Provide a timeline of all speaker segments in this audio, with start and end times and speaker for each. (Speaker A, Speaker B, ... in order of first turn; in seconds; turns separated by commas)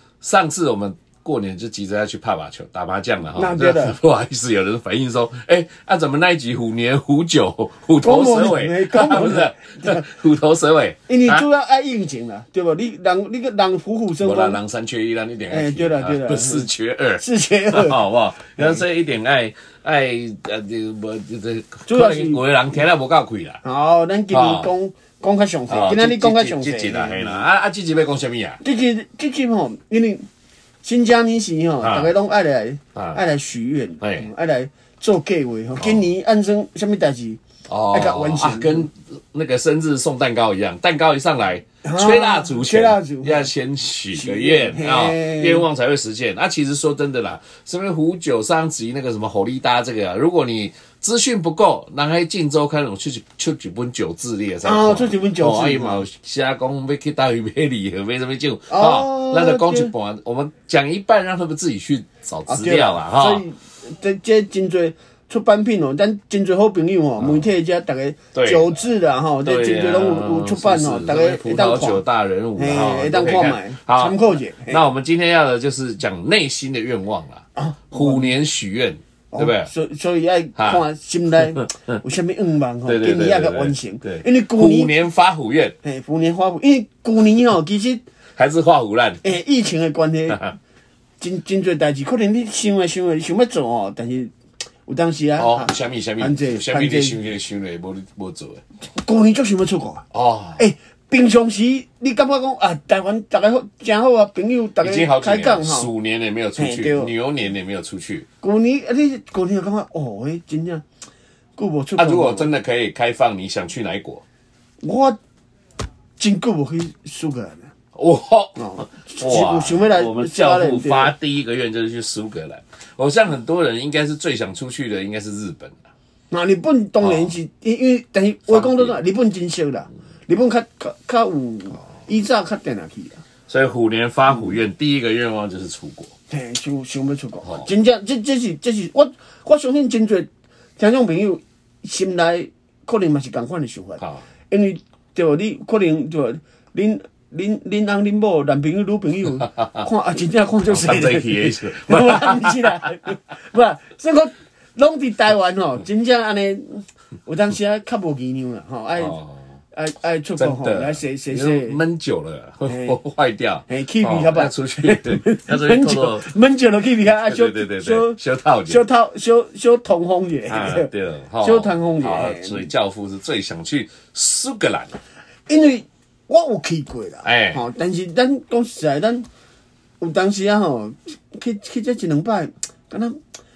Speaker A: 0.2-11.4, Speaker B: 3.4-4.0, Speaker B: 8.0-10.1, Speaker B: 11.1-14.6, Speaker A: 14.2-23.6, Speaker B: 15.5-18.0, Speaker B: 21.9-22.4, Speaker B: 23.6-27.4, Speaker A: 24.3-24.7, Speaker A: 25.7-28.6, Speaker B: 28.6-30.3, Speaker B: 30.8-38.9, Speaker A: 31.8-32.1, Speaker A: 34.0-34.3, Speaker A: 35.8-36.0, Speaker A: 37.7-63.5, Speaker B: 41.8-43.5, Speaker B: 44.1-45.7, Speaker B: 54.6-56.0, Speaker B: 58.7-59.9, Speaker B: 62.5-72.0, Speaker A: 68.3-68.7, Speaker A: 69.4-79.7, Speaker B: 72.6-74.8, Speaker B: 77.6-78.3, Speaker B: 79.3-85.0, Speaker A: 80.6-80.8, Speaker A: 81.5-81.9, Speaker A: 82.8-85.8, Speaker B: 85.8-88.0, Speaker A: 88.4-89.2, Speaker B: 89.2-90.5, Speaker B: 91.2-94.3, Speaker B: 94.9-97.2, Speaker A: 95.4-98.6, Speaker B: 98.9-100.1, Speaker A: 100.1-100.7, Speaker B: 100.6-105.9, Speaker A: 104.8-108.3, Speaker B: 106.6-107.1, Speaker B: 108.4-110.8, Speaker B: 111.6-112.5, Speaker A: 112.0-114.2, Speaker B: 114.8-115.2, Speaker B: 116.2-117.7, Speaker A: 118.0-125.8, Speaker B: 118.6-121.1, Speaker B: 126.3-133.2, Speaker A: 127.0-127.3, Speaker A: 128.5-129.0, Speaker A: 133.5-136.1, Speaker B: 136.3-159.2, Speaker A: 137.4-137.7, Speaker A: 149.4-149.9, Speaker A: 150.7-152.7, Speaker A: 159.0-159.4, Speaker B: 159.7-161.8, Speaker A: 160.4-166.3, Speaker B: 162.7-163.0, Speaker B: 163.7-170.9, Speaker A: 167.2-168.8, Speaker A: 170.5-175.0, Speaker B: 171.4-172.7, Speaker B: 175.5-179.3, Speaker A: 177.2-177.6, Speaker B: 180.0-183.2